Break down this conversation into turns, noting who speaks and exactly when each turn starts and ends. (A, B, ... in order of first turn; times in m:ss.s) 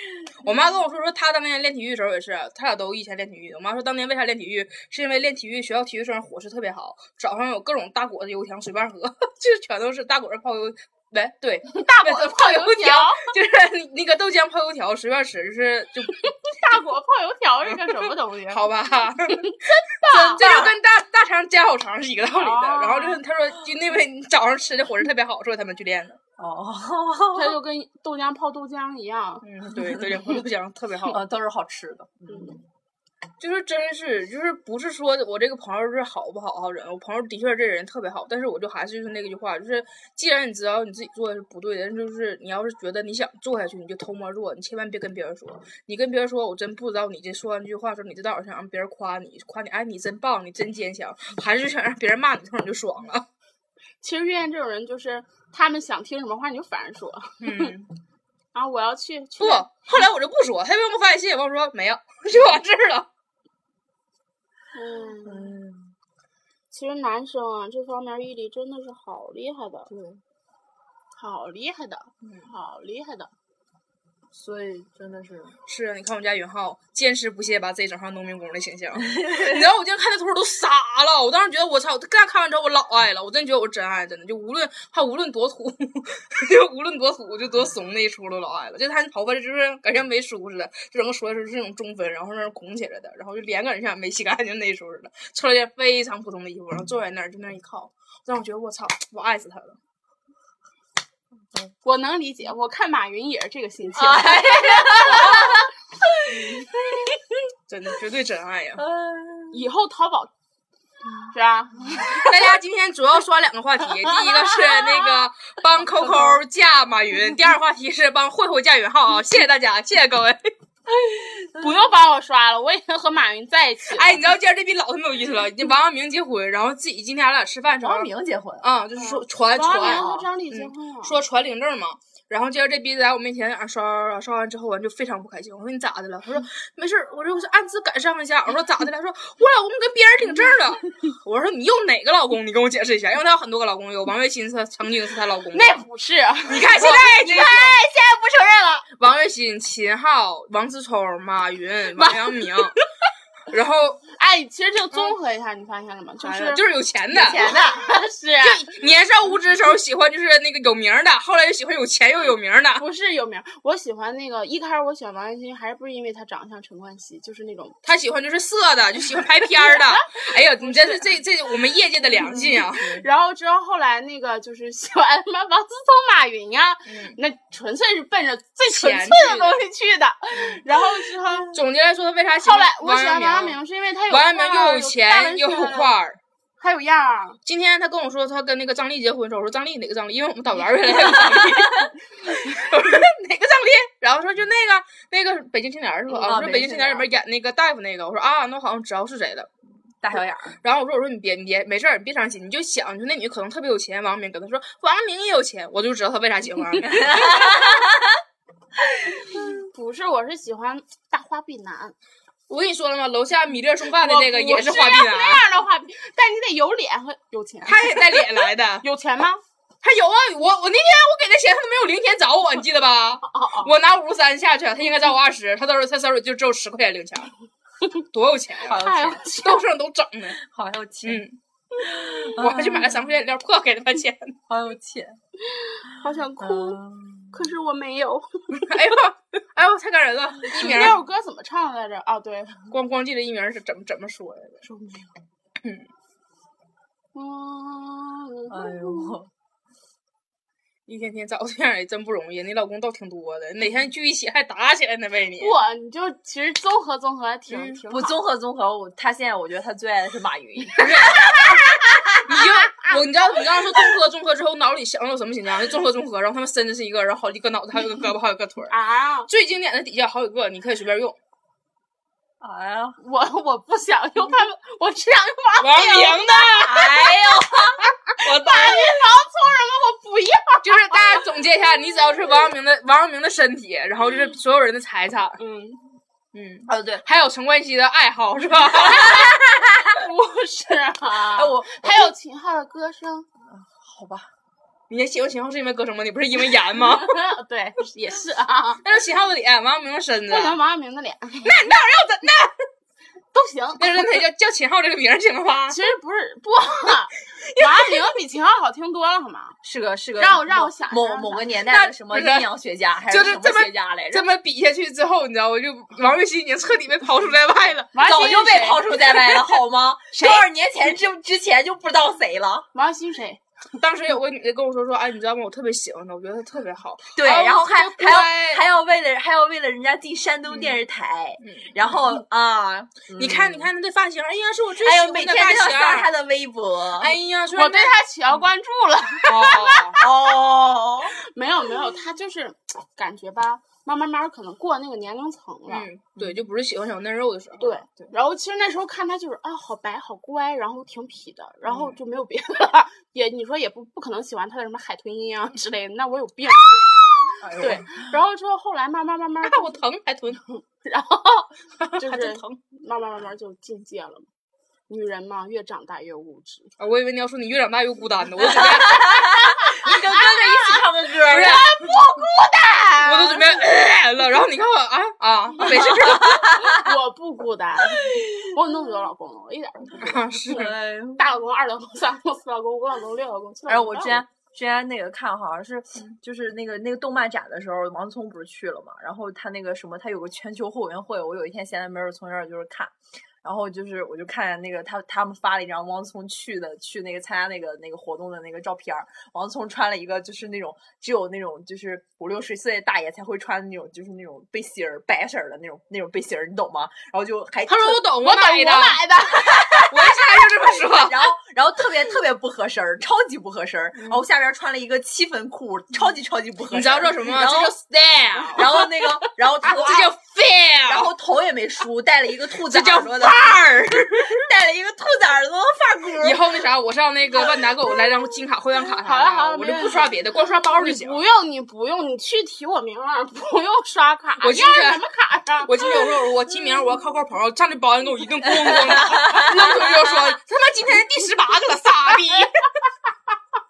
0:00.4-0:16.2 A
0:11.7-0:13.3 B
0:16.2-0:18.6 B
0:17.7-0:26.2 A
0:19.3-0:20.4 B
0:20.1-0:20.8 C
0:22.3-0:23.2 B
0:26.4-0:27.6 C
0:27.3-0:29.4 B
0:29.4-0:31.2 A
0:29.8-0:30.2 C
0:31.1-0:32.6 C
0:32.3-0:32.6 B
0:33.4-0:53.2 A
0:54.0-0:57.7 B
0:57.4-0:57.9 A
0:58.5-0:59.7 B
0:59.4-1:03.1 A
1:04.7-1:05.6 B
1:05.2-1:05.9 C
1:06.7-1:09.9 B
1:09.9-1:10.2 C
1:11.1-1:13.3 B
1:12.2-1:12.5 A
1:14.3-1:15.6 C
1:15.7-1:39.8 A
1:19.0-1:19.7 C
1:41.8-1:45.7 B
1:43.9-1:45.7 C
1:46.2-1:47.2 C
1:46.3-1:47.1 B
1:47.7-1:48.8 A
1:48.8-1:49.6 C
1:49.5-1:50.3 B
1:51.3-1:52.3 B
1:52.1-2:00.5 A
1:54.1-1:55.1 B
1:56.0-1:56.4 C
2:01.0-2:01.7 C
2:01.5-2:04.2 B
2:03.9-2:08.1 A
2:07.8-2:08.6 C
2:08.6-2:25.8 A
2:09.0-2:11.2 B
2:09.8-2:10.3 C
2:25.5-2:28.8 B
2:26.5-2:27.8 A
2:26.7-2:28.6 C
2:29.0-2:32.8 A
2:32.0-2:32.8 B
2:33.5-2:34.0 A
2:34.1-2:36.6 B
2:36.2-2:37.4 A
2:37.1-2:37.9 C
2:37.2-2:38.6 B
2:38.4-2:42.8 A
2:42.8-2:47.8 B
2:47.8-2:53.0 A
2:49.5-2:51.1 B
2:52.2-2:53.0 C
2:52.8-3:01.6 B
2:56.9-2:57.2 A
2:58.7-2:59.6 A
3:00.4-3:00.6 A
3:01.5-3:06.2 A
3:02.4-3:05.9 B
3:06.6-3:07.4 B
3:07.4-3:19.5 A
3:11.3-3:11.8 C
3:16.2-3:17.1 C
3:20.0-3:20.6 C
3:20.6-3:27.7 A
3:27.0-3:28.2 C
3:28.9-3:29.5 C
3:29.3-3:31.9 B
3:32.5-3:35.4 A
3:33.9-3:39.4 B
3:37.6-3:38.8 A
3:39.8-3:47.3 A
3:43.3-3:43.7 B
3:48.1-3:48.8 A
3:48.6-3:49.2 C
3:48.7-3:49.6 B
3:49.3-3:50.4 A
3:50.4-3:51.2 C
3:51.0-3:51.4 A
3:51.7-3:52.1 B
3:51.8-3:53.1 C
3:52.4-3:54.4 A
3:54.5-3:55.2 C
3:55.4-3:56.8 B
3:56.4-3:57.4 C
3:57.3-3:59.0 B
3:58.5-4:01.0 A
4:00.4-4:02.7 B
4:02.7-4:04.6 A
4:04.6-4:05.1 B
4:05.6-4:05.9 A
4:07.1-4:09.2 B
4:08.5-4:09.3 C
4:10.9-4:15.6 A
4:15.4-4:18.1 B
4:17.5-4:17.8 A
4:17.9-4:22.4 C
4:20.8-4:21.6 A
4:21.0-4:22.1 B
4:22.2-4:28.7 A
4:22.7-4:23.0 B
4:28.7-4:29.3 B
4:29.3-4:31.2 A
4:32.4-4:33.0 C
4:33.0-4:41.2 B
4:35.6-4:37.4 A
4:36.6-4:37.9 C
4:38.2-4:39.0 A
4:40.6-4:45.4 A
4:45.4-4:45.8 B
4:46.3-4:49.3 A
4:46.7-4:47.0 C
4:48.7-4:53.3 B
4:49.1-4:49.6 C
4:51.1-4:52.1 C
4:53.5-4:54.3 C
4:54.9-4:57.2 A
4:56.7-4:58.8 B
4:58.8-5:00.6 A
5:00.3-5:01.6 B
5:01.4-5:02.6 A
5:03.3-5:04.2 B
5:03.8-5:05.8 A
5:05.7-5:09.6 B
5:07.4-5:07.9 A
5:09.6-5:14.3 C
5:10.2-5:11.5 B
5:11.6-5:12.5 A
5:13.1-5:19.4 A
5:17.9-5:18.9 B
5:18.0-5:22.7 C
5:22.7-5:23.4 B
5:23.8-5:28.6 A
5:27.1-5:33.7 C
5:31.4-5:32.1 A
5:33.2-5:36.1 A
5:34.8-5:37.1 C
5:37.0-5:37.9 A
5:37.6-5:40.1 B
5:39.2-5:40.0 A
5:40.0-5:41.1 C
5:41.1-5:45.9 B
5:45.7-5:47.8 A
5:46.2-5:46.4 C
5:47.6-5:59.8 B
5:51.7-5:52.0 A
5:57.4-5:58.1 C
5:59.4-6:00.4 A
6:00.5-6:04.3 B
6:01.8-6:02.6 A
6:04.9-6:06.7 B
6:06.8-6:09.2 A
6:08.4-6:11.7 C
6:08.6-6:13.4 B
6:11.2-6:11.7 A
6:13.0-6:16.4 A
6:15.6-6:16.9 C
6:15.7-6:20.6 B
6:17.9-6:18.5 C
6:20.0-6:20.8 A
6:20.4-6:21.2 C
6:21.2-6:24.2 B
6:23.7-6:48.1 C
6:47.6-6:49.0 A
6:48.2-6:50.1 B
6:49.5-6:57.7 C
6:49.7-6:51.3 A
6:54.0-6:54.2 A
6:56.7-6:59.0 A
6:58.5-7:00.1 C
6:59.6-7:01.1 A
7:00.8-7:06.6 C
7:02.7-7:04.4 A
7:06.2-7:11.2 A
7:09.0-7:10.2 B
7:10.8-7:16.0 B
7:14.4-7:15.0 A
7:15.6-7:22.7 A
7:18.4-7:20.4 C